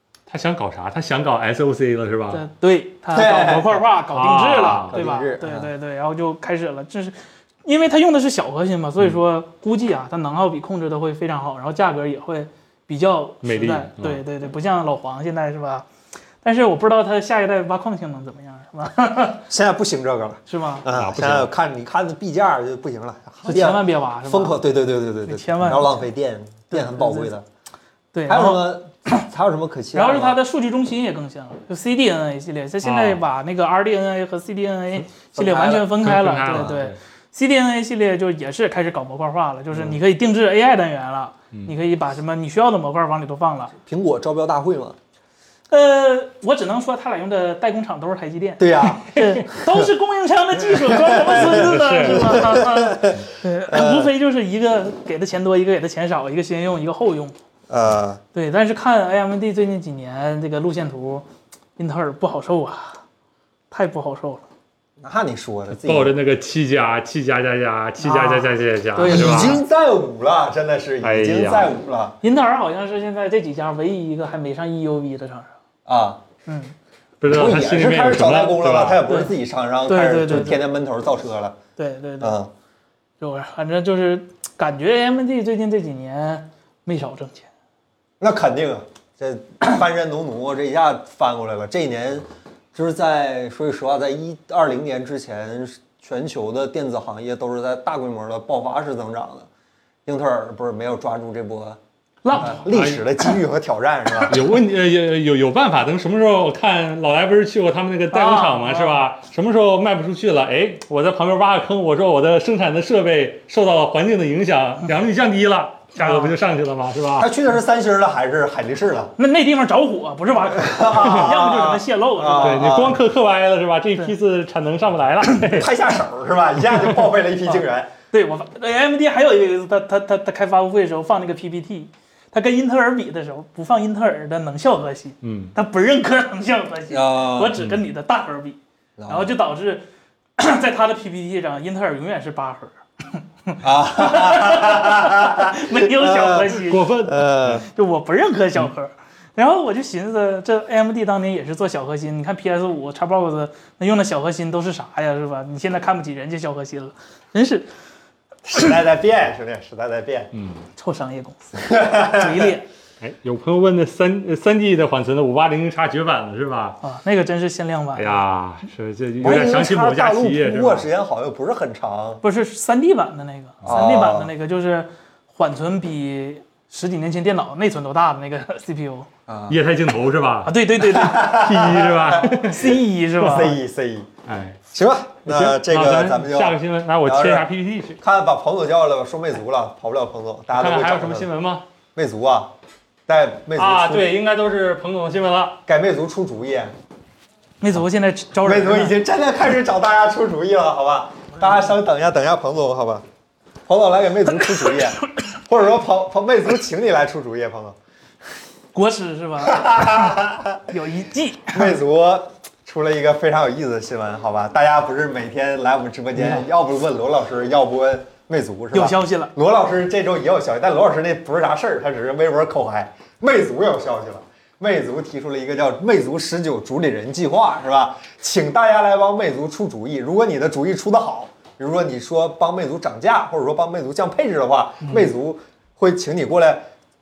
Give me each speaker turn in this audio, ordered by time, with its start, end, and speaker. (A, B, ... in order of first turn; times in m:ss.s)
0:00.3-0:02.4 A
0:02.3-0:15.9 B
0:03.1-0:03.8 C
0:04.1-0:04.9 A
0:04.9-0:05.7 C
0:13.4-0:14.2 A
0:16.4-0:19.4 B
0:19.5-0:27.4 C
0:20.5-0:20.9 B
0:20.9-0:21.5 A
0:23.4-0:24.6 B
0:25.3-0:26.0 B
0:26.7-0:27.3 B
0:28.1-0:28.7 B
0:28.3-0:30.4 C
0:29.9-0:43.8 B
0:32.8-0:33.2 A
0:35.3-0:35.9 C
0:36.0-0:37.0 A
0:43.8-0:45.0 C
0:45.7-0:57.4 B
0:48.6-0:49.9 C
0:50.7-0:54.1 C
0:51.5-0:52.4 A
0:57.7-0:58.2 C
0:58.3-1:01.3 B
1:01.8-1:03.0 B
1:03.7-1:04.4 B
1:05.0-1:06.2 C
1:05.7-1:09.6 A
1:08.0-1:09.6 B
1:09.0-1:12.2 C
1:11.0-1:11.7 A
1:12.2-1:15.5 B
1:15.9-1:16.2 C
1:16.5-1:16.7 B
1:17.2-1:19.0 A
1:17.3-1:21.6 C
1:19.1-1:19.3 B
1:19.9-1:20.6 B
1:21.8-1:22.4 B
1:22.2-1:22.5 C
1:23.2-1:27.5 B
1:28.2-1:39.5 C
1:40.1-1:41.8 C
1:42.2-1:42.7 B
1:42.4-1:44.4 C
1:42.7-1:43.0 A
1:44.3-1:57.3 A
1:48.1-1:49.0 B
1:56.0-1:56.4 B
1:57.2-1:59.1 C
1:59.2-2:02.8 B
2:00.5-2:03.0 C
2:02.4-2:05.7 A
2:05.5-2:07.9 C
2:08.1-2:19.8 B
2:15.2-2:15.5 A
2:16.9-2:17.6 C
2:19.0-2:19.3 C
2:20.4-2:26.9 B
2:23.6-2:27.7 C
2:26.6-2:27.6 A
2:27.7-2:37.7 B
2:38.4-2:40.3 C
2:40.3-2:40.6 A
2:40.8-2:42.7 B
2:41.6-2:42.5 C
2:43.0-2:46.8 A
2:46.8-2:48.2 B
2:48.0-2:50.9 A
2:49.2-2:52.2 C
2:52.2-2:59.1 B
2:53.6-2:54.3 C
2:59.3-2:59.6 C
2:59.5-3:02.8 A
3:00.4-3:01.4 B
3:00.8-3:02.4 C
3:02.2-3:03.6 B
3:03.2-3:04.1 C
3:04.3-3:04.6 A
3:04.7-3:11.3 C
3:05.3-3:08.0 A
3:10.5-3:11.6 A
3:12.0-3:12.5 C
3:13.1-3:14.1 C
3:13.6-3:15.6 A
3:15.7-3:16.7 C
3:17.6-3:19.0 B
3:18.4-3:23.0 C
3:23.7-3:27.8 C
3:24.3-3:25.3 B
3:28.8-3:31.8 B
3:29.4-3:30.6 C
3:31.5-3:56.7 C
3:38.7-3:39.3 B